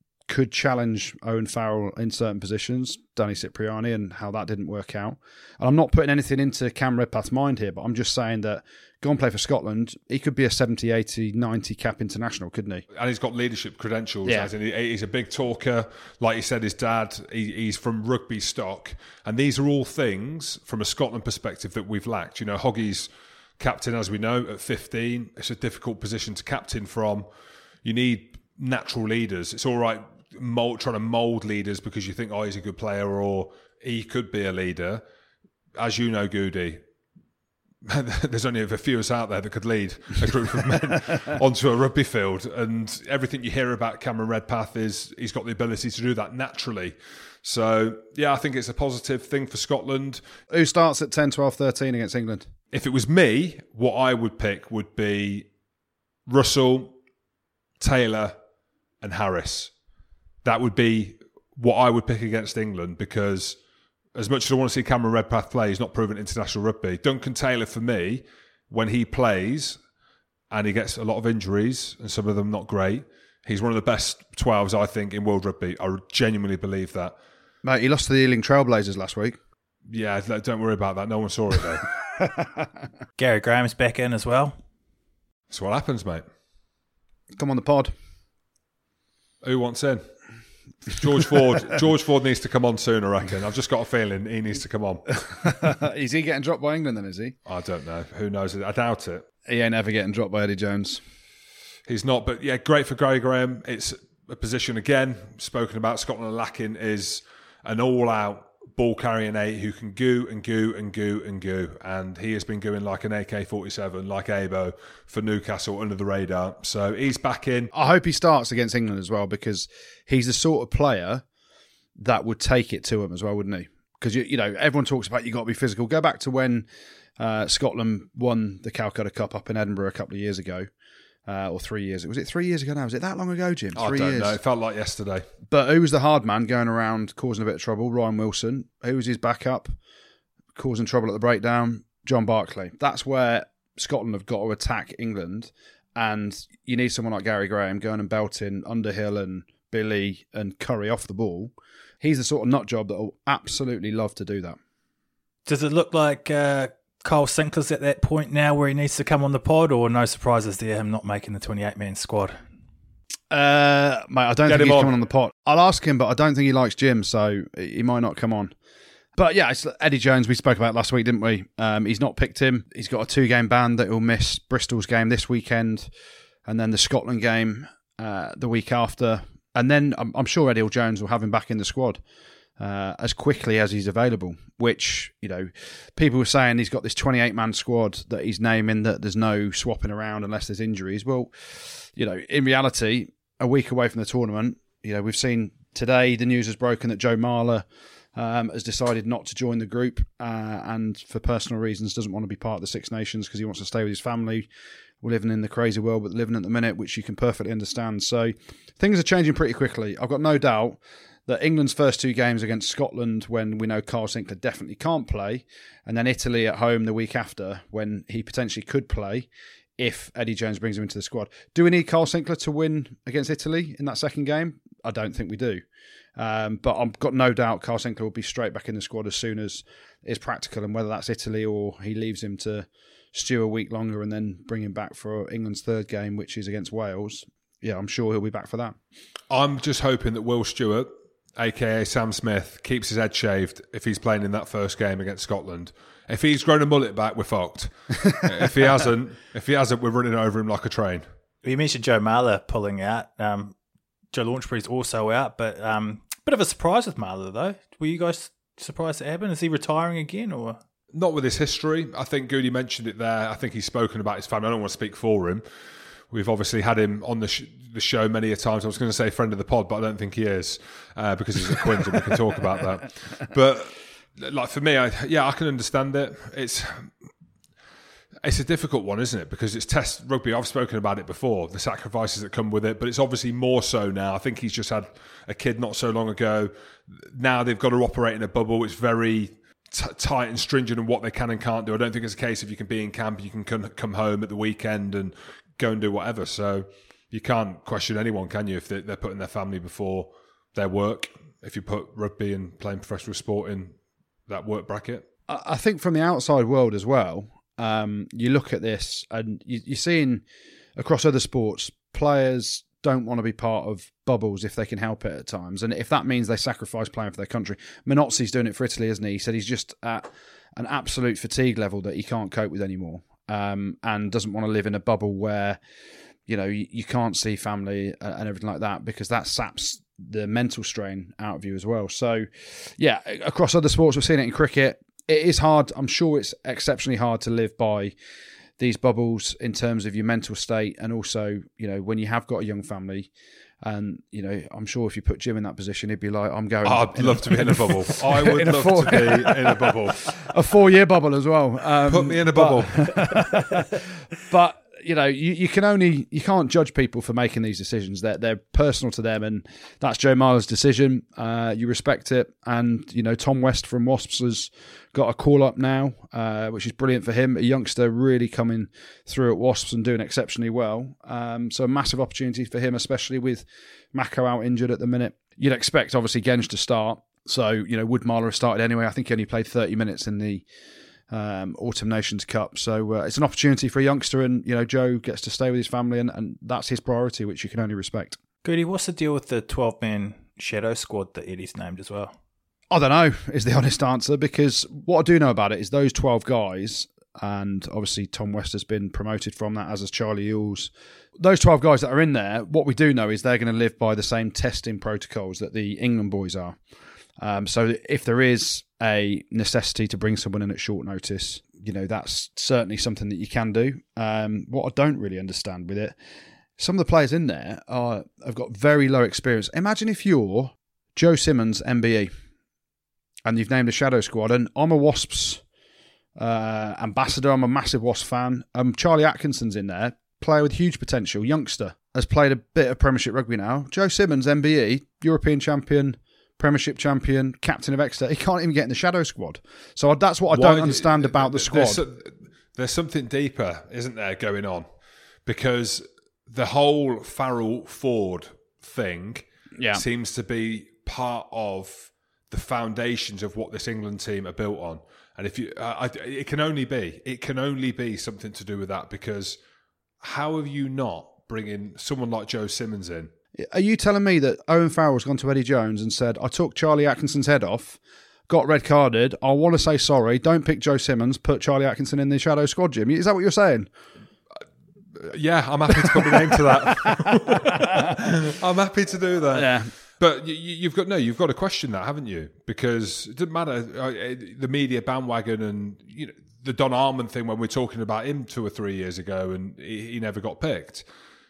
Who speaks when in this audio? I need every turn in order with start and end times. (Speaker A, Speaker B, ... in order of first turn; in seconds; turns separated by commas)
Speaker A: 0.3-12.8, Speaker B: 12.9-23.1, Speaker A: 14.2-14.5, Speaker B: 23.6-27.2, Speaker B: 27.8-35.0, Speaker B: 35.8-36.8, Speaker B: 37.8-50.2, Speaker A: 50.5-52.5, Speaker B: 52.7-55.5, Speaker B: 56.3-56.9, Speaker B: 57.8-58.3, Speaker B: 59.0-59.7, Speaker B: 60.4-63.6, Speaker B: 64.1-69.8, Speaker B: 70.5-77.1, Speaker A: 77.6-79.4, Speaker B: 79.9-81.9, Speaker C: 83.2-84.5, Speaker B: 85.5-86.2, Speaker A: 87.3-87.9, Speaker B: 89.4-90.0, Speaker B: 90.9-95.2, Speaker A: 95.3-97.3, Speaker B: 97.5-99.2, Speaker A: 99.5-101.0, Speaker B: 101.9-117.7, Speaker A: 117.7-121.2, Speaker A: 122.0-126.7, Speaker A: 127.2-130.7, Speaker A: 131.2-134.4, Speaker B: 133.8-135.2, Speaker A: 135.5-139.7, Speaker A: 140.5-154.6, Speaker C: 155.4-162.4, Speaker A: 163.3-168.5, Speaker B: 164.4-164.9, Speaker A: 169.2-175.9, Speaker A: 176.4-182.0, Speaker A: 182.6-204.5, Speaker A: 205.0-225.6, Speaker A: 226.2-238.8, Speaker B: 239.3-251.0, Speaker C: 251.4-253.5, Speaker C: 254.1-260.6, Speaker B: 260.9-265.4, Speaker B: 266.1-276.9, Speaker B: 278.2-303.7, Speaker B: 304.3-305.1, Speaker A: 305.3-310.2, Speaker A: 310.8-325.6, Speaker A: 326.3-337.9, Speaker A: 338.6-343.1, Speaker A: 343.6-380.4, Speaker B: 346.6-350.2, Speaker B: 351.8-353.1, Speaker A: 381.1-388.2, Speaker C: 388.4-392.1, Speaker A: 392.7-406.6, Speaker A: 407.2-415.9, Speaker A: 416.6-422.1, Speaker A: 423.2-425.4, Speaker A: 426.1-441.8, Speaker B: 440.3-444.6, Speaker B: 445.2-459.4, Speaker A: 449.6-449.8, Speaker B: 460.0-463.1, Speaker A: 463.4-467.8, Speaker A: 468.3-473.7, Speaker B: 475.0-490.8, Speaker A: 475.8-478.0, Speaker A: 479.3-479.7